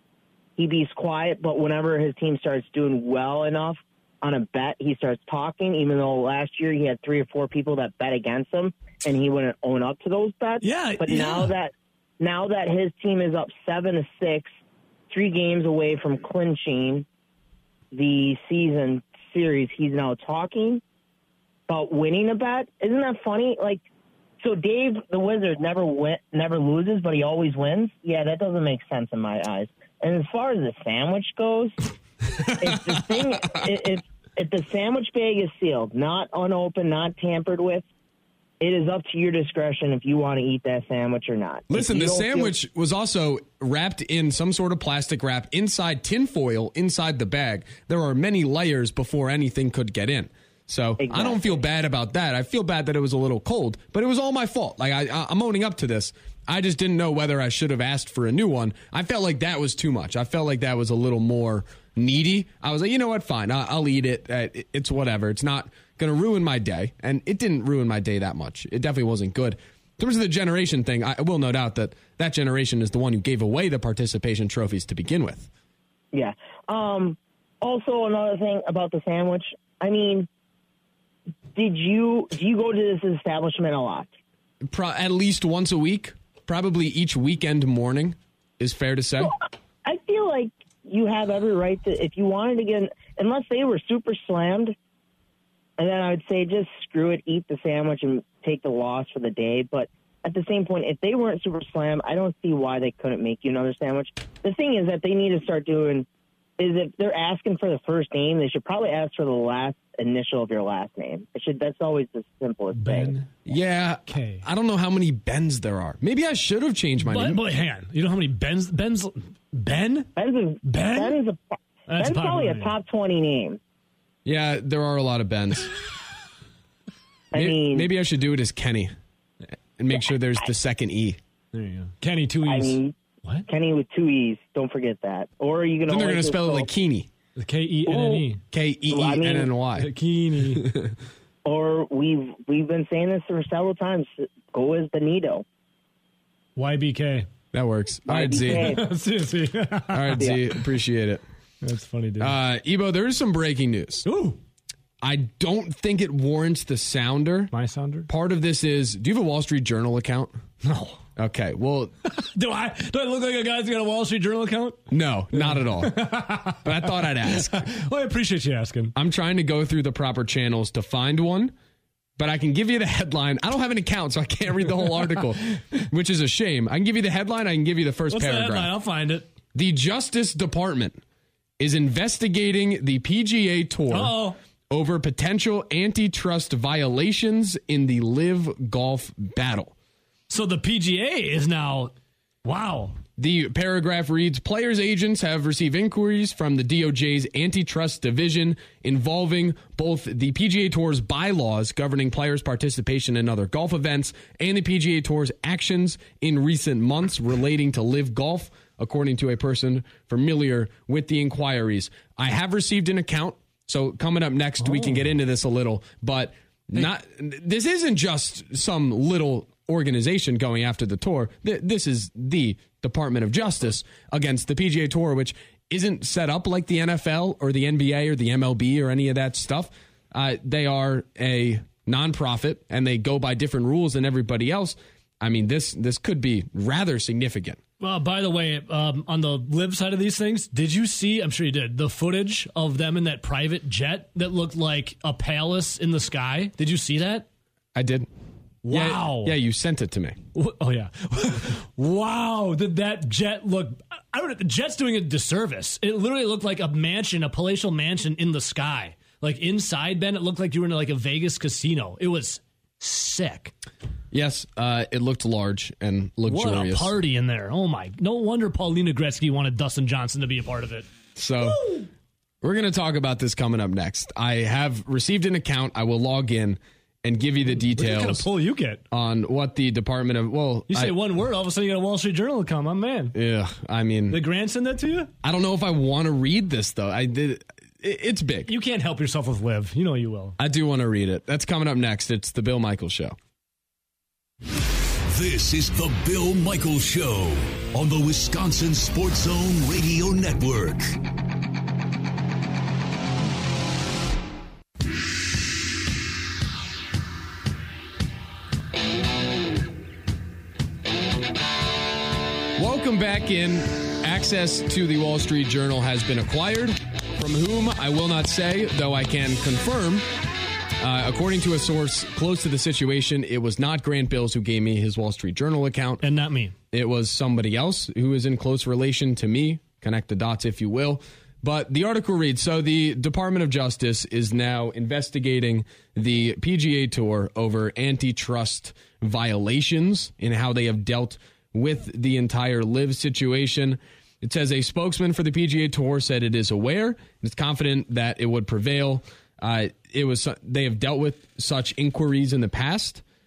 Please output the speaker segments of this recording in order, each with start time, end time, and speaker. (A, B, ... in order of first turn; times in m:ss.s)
0:00.6-0:14.5 A
0:10.6-0:11.5 B
0:15.1-0:17.0 A
0:17.9-0:20.8 A
0:21.7-0:23.8 A
0:24.4-0:31.9 A
0:32.6-0:37.8 A
0:38.6-0:42.5 A
0:41.7-1:15.5 C
0:51.0-0:51.6 A
1:16.1-1:20.3 A
1:21.5-1:24.1 A
1:24.6-1:29.3 C
1:29.8-1:34.7 A
1:35.8-1:46.1 A
1:46.6-1:53.1 A
1:52.7-1:53.3 B
1:53.4-1:57.4 C
1:54.1-1:54.4 B
1:57.0-2:00.1 B
2:00.2-2:03.6 A
2:00.6-2:01.2 B
2:01.9-2:02.7 B
2:04.2-2:05.7 C
2:07.3-2:07.9 A
2:07.3-2:08.9 C
2:09.8-2:11.2 C
2:11.5-2:13.5 B
2:12.4-2:12.9 A
2:13.5-2:16.7 A
2:15.9-2:17.1 C
2:17.4-2:18.4 B
2:17.9-2:18.2 A
2:18.5-2:19.9 C
2:18.9-2:19.5 A
2:19.8-2:20.7 B
2:20.6-2:20.9 C
2:21.4-2:25.4 A
2:26.6-2:27.3 B
2:27.5-2:28.8 C
2:28.1-2:28.8 A
2:28.3-2:30.3 B
2:29.9-2:31.2 C
2:30.2-2:30.4 A
2:31.6-2:32.3 B
2:32.2-2:34.0 C
2:34.0-2:34.4 B
2:35.0-2:37.5 C
2:37.5-2:38.1 B
2:38.1-2:40.4 C
2:40.6-2:41.0 B
2:41.2-2:41.9 C
2:42.0-2:48.9 B
2:44.9-2:47.6 C
2:48.9-2:51.5 C
2:52.2-2:58.7 C
2:58.1-2:59.3 B
2:59.5-3:01.0 C
3:01.6-3:04.2 C
3:03.9-3:04.4 B
3:04.7-3:09.7 C
3:10.3-3:11.9 B
3:12.4-3:13.0 B
3:13.2-3:57.6 C
3:34.6-3:35.1 B
3:57.8-4:07.3 B
4:07.7-4:08.1 C
4:08.6-4:09.4 B
4:08.7-4:10.2 C
4:10.3-4:23.5 B
4:24.1-4:27.0 C
4:26.2-4:30.9 B
4:31.1-4:31.6 C
4:31.4-4:31.9 B
4:32.4-4:38.3 C
4:37.5-4:38.8 B
4:38.9-4:41.0 C
4:40.7-4:43.1 B
4:43.1-4:44.2 C
4:44.1-4:45.1 B
4:45.2-4:48.5 C
4:48.5-4:50.4 B
4:50.4-4:53.2 C
4:55.0-5:01.0 D
5:12.5-5:20.0 C
5:20.8-5:26.0 C
5:26.0-5:26.5 B
5:26.7-5:53.0 C